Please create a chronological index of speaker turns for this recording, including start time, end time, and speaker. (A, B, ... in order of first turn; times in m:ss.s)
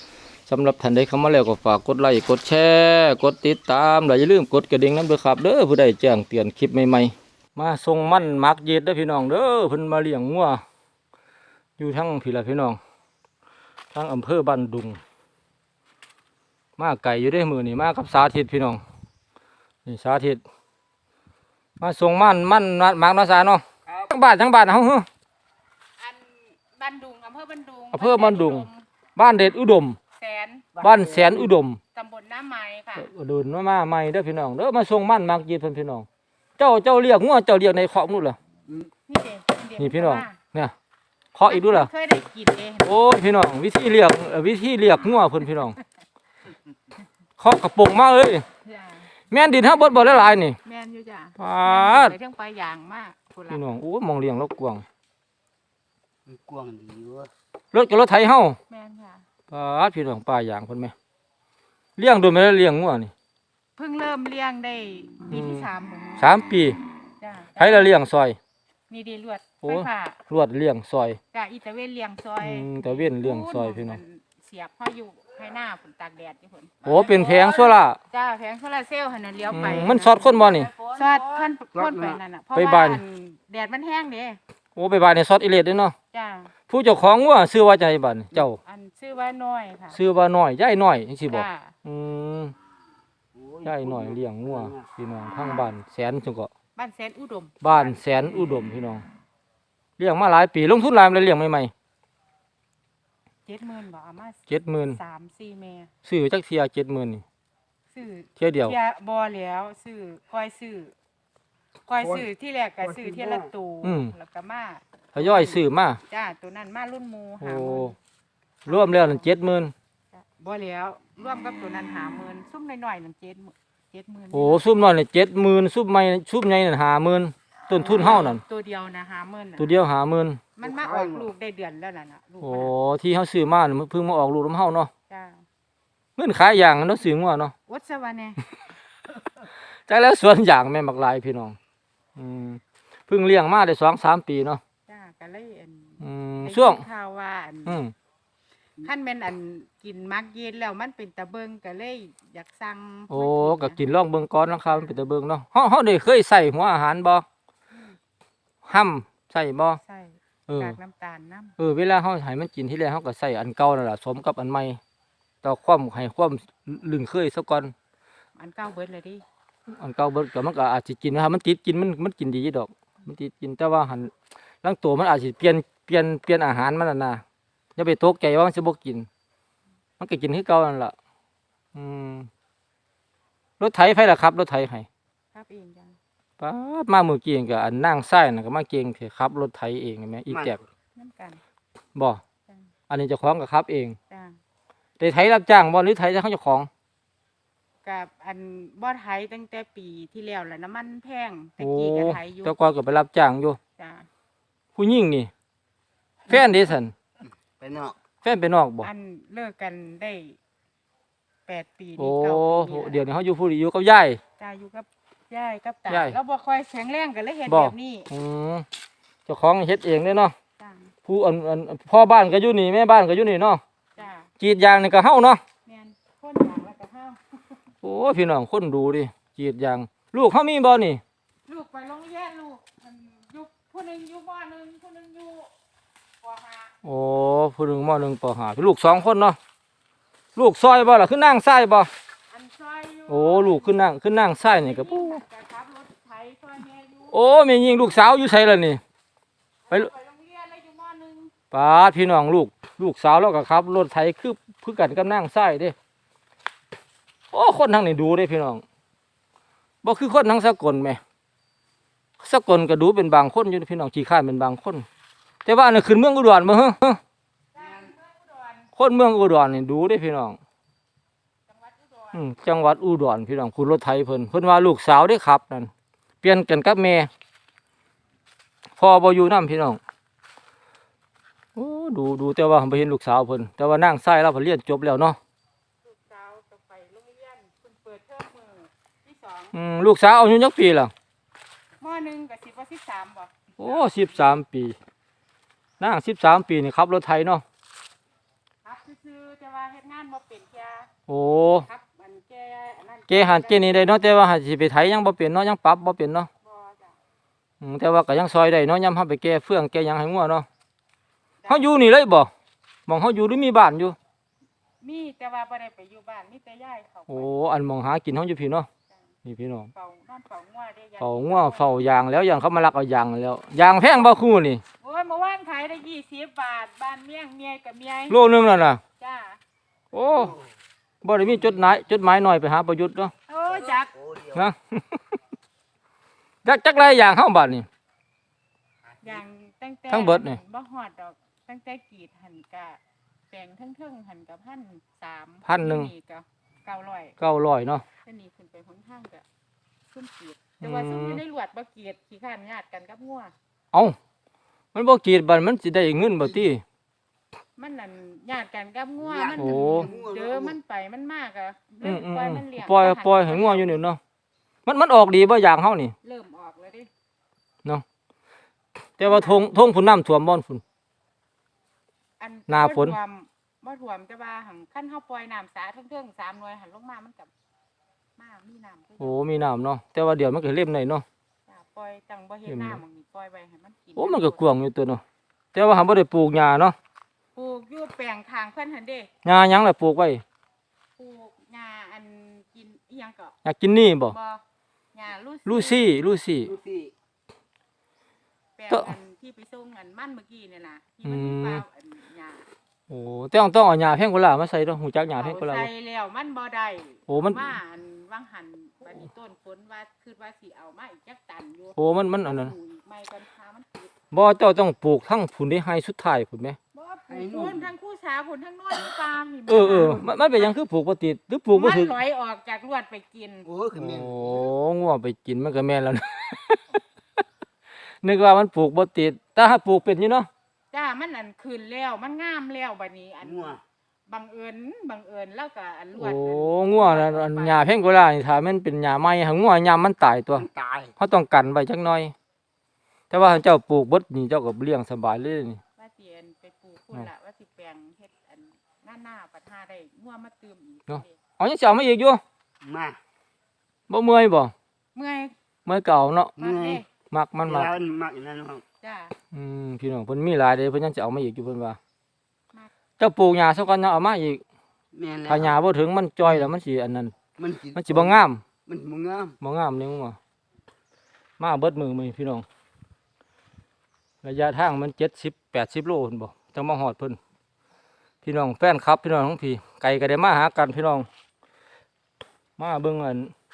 0:00.5-0:10.6 A
0:11.8-0:12.8 A
0:13.9-0:15.0 A
0:16.8-0:18.8 A
0:19.8-0:20.4 A
0:21.8-0:25.1 A
0:26.0-0:28.8 B
0:27.9-0:30.0 A
0:30.1-0:30.8 B
0:30.8-0:31.8 A
0:30.8-0:31.4 C
0:31.9-0:33.1 B
0:33.0-0:36.1 A
0:36.6-0:38.4 A
0:39.1-0:40.4 B
0:39.8-0:40.7 A
0:41.3-0:41.9 A
0:41.5-0:43.0 B
0:42.8-0:45.8 A
0:47.4-0:48.4 A
0:48.6-0:53.6 B
0:49.3-0:50.6 A
0:51.4-0:52.2 A
0:53.5-0:54.8 A
0:56.3-0:57.3 C
0:57.7-0:58.6 A
0:58.7-0:59.3 B
0:59.5-1:00.9 A
1:02.0-1:03.1 A
1:03.8-1:06.3 B
1:05.3-1:06.8 A
1:07.2-1:08.0 B
1:07.6-1:08.4 A
1:08.9-1:10.2 B
1:09.6-1:11.2 A
1:11.3-1:24.4 B
1:12.4-1:14.0 A
1:16.8-1:18.0 A
1:19.5-1:20.7 A
1:21.7-1:22.2 C
1:22.6-1:23.0 A
1:24.8-1:26.0 A
1:26.1-1:26.5 B
1:26.7-1:28.6 A
1:28.6-1:30.0 B
1:29.9-1:32.6 A
1:31.3-1:31.8 B
1:33.4-1:34.8 C
1:33.6-1:36.5 A
1:36.8-1:37.7 B
1:37.6-1:39.0 A
1:40.0-1:41.7 A
1:43.5-1:45.9 B
1:44.5-1:45.0 A
1:46.0-1:47.2 A
1:47.9-1:51.0 B
1:48.4-1:48.8 A
1:51.9-1:58.0 B
1:52.9-1:53.5 C
1:53.8-1:54.1 A
1:55.2-1:56.0 A
1:57.4-1:57.9 A
1:58.7-1:59.3 B
1:58.7-1:59.7 A
2:00.2-2:04.6 B
2:04.3-2:08.4 A
2:07.7-2:09.8 B
2:09.6-2:10.4 A
2:10.6-2:12.7 B
2:10.6-2:11.3 C
2:12.4-2:14.9 A
2:15.1-2:15.4 B
2:16.2-2:17.5 A
2:17.7-2:18.4 B
2:19.9-2:21.6 A
2:22.2-2:24.6 A
2:24.9-2:27.8 B
2:26.0-2:26.8 A
2:27.7-2:27.9 A
2:28.8-2:33.8 B
2:33.1-2:37.2 A
2:34.5-2:35.0 B
2:37.7-2:38.0 B
2:38.6-2:39.8 A
2:39.8-2:41.6 B
2:40.5-2:40.8 A
2:41.6-2:44.8 A
2:45.4-2:47.7 A
2:48.4-2:49.2 B
2:49.7-2:54.1 A
2:54.6-2:57.2 A
2:57.8-2:59.1 A
3:00.0-3:00.9 A
3:01.8-3:02.3 A
3:03.6-3:04.9 A
3:05.3-3:06.0 B
3:06.4-3:10.6 A
3:10.3-3:10.6 C
3:11.0-3:11.4 B
3:12.0-3:12.2 A
3:12.9-3:14.0 A
3:14.1-3:14.4 B
3:15.0-3:16.7 A
3:17.8-3:22.6 B
3:21.6-3:23.6 A
3:23.8-3:24.1 B
3:24.8-3:25.3 A
3:26.3-3:26.9 A
3:26.3-3:26.7 B
3:27.6-3:28.0 C
3:28.2-3:28.9 A
3:28.8-3:30.4 B
3:31.5-3:33.0 B
3:32.0-3:34.2 A
3:34.4-3:38.1 B
3:35.9-3:36.2 A
3:37.5-3:38.7 A
3:39.3-3:40.3 A
3:40.6-3:40.9 B
3:41.1-3:43.6 A
3:44.0-3:44.3 B
3:44.4-3:45.4 A
3:45.7-3:47.4 B
3:47.8-3:51.0 A
3:51.5-3:55.5 B
3:56.2-3:56.8 B
3:56.8-3:59.4 A
4:00.4-4:01.9 A
4:02.3-4:03.8 B
4:03.1-4:05.2 A
4:04.4-4:07.2 B
4:07.1-4:08.8 A
4:09.7-4:11.3 B
4:11.5-4:15.8 A
4:17.3-4:18.6 A
4:19.8-4:21.0 A
4:22.2-4:24.9 A
4:25.4-4:27.0 A
4:27.5-4:28.7 B
4:28.8-4:30.4 A
4:31.5-4:32.2 B
4:32.1-4:35.7 A
4:36.2-4:37.1 A
4:38.8-4:39.8 A
4:41.6-4:45.2 A
4:45.8-4:49.6 B
4:49.5-4:50.9 A
4:51.8-4:53.9 B
4:53.6-4:54.8 A
4:55.8-4:57.4 A
4:58.6-5:00.9 B
5:01.1-5:01.7 A
5:01.6-5:04.0 B
5:03.1-5:06.3 A
5:06.4-5:07.0 B
5:07.6-5:10.5 A
5:11.4-5:11.7 B
5:11.5-5:12.3 A
5:12.9-5:14.0 A
5:14.8-5:17.3 B
5:17.1-5:18.7 A
5:19.2-5:19.7 A
5:19.7-5:21.9 B
5:21.0-5:24.6 A
5:24.8-5:28.2 B
5:28.1-5:28.8 A
5:29.0-5:29.4 B
5:29.9-5:30.4 A
5:31.0-5:33.1 A
5:33.3-5:34.1 B
5:34.3-5:35.0 A
5:36.4-5:37.7 A
5:39.0-5:47.2 B
5:39.9-5:40.4 A
5:45.4-5:45.9 A
5:47.2-5:47.8 A
5:48.0-5:49.2 B
5:49.9-5:53.3 B
5:50.6-5:51.2 A
5:53.7-5:54.0 A
5:54.7-5:56.6 A
5:57.6-6:03.8 B
5:59.1-6:00.6 C
5:59.4-5:59.9 A
6:01.8-6:04.0 A
6:04.7-6:05.9 A
6:06.0-6:06.9 B
6:09.0-6:10.6 A
6:09.0-6:09.5 B
6:12.2-6:17.3 B
6:12.5-6:13.0 A
6:18.2-6:19.2 B
6:19.0-6:21.0 A
6:21.5-6:24.4 B
6:22.5-6:22.8 A
6:24.0-6:25.0 A
6:25.5-6:26.8 A
6:27.4-6:29.1 B
6:29.2-6:30.2 A
6:31.0-6:33.4 B
6:33.4-6:34.2 A
6:34.0-6:34.4 B
6:34.9-6:36.0 B
6:35.5-6:36.6 A
6:36.5-6:36.9 C
6:38.6-6:42.5 B
6:41.0-6:41.6 A
6:42.9-6:45.7 A
6:45.2-6:53.9 B
6:47.1-6:47.5 A
6:51.8-6:52.5 A
6:54.1-6:56.6 A
6:56.7-7:00.5 B
6:57.1-6:57.7 C
6:59.5-7:02.0 A
7:01.5-7:03.5 B
7:03.5-7:04.3 C
7:03.8-7:06.6 A
7:08.0-7:10.3 A
7:10.7-7:17.8 B
7:16.0-7:22.1 A
7:20.5-7:20.9 C
7:23.1-7:25.6 A
7:25.8-7:31.2 B
7:30.9-7:32.2 A
7:32.6-7:33.0 C
7:33.9-7:34.5 A
7:35.0-7:35.3 B
7:35.7-7:36.3 A
7:36.4-7:36.9 B
7:36.4-7:36.8 C
7:37.1-7:37.7 A
7:37.5-7:38.6 C
7:38.8-7:39.2 B
7:39.3-7:41.8 A
7:43.0-7:44.4 A
7:44.9-7:45.5 C
7:45.3-7:47.2 A
7:47.4-7:48.1 C
7:47.7-7:48.4 A
7:48.7-7:49.4 C
7:49.4-7:50.2 A
7:51.4-7:52.4 A
7:54.2-7:57.2 A
7:58.2-8:01.1 A
8:02.6-8:03.3 A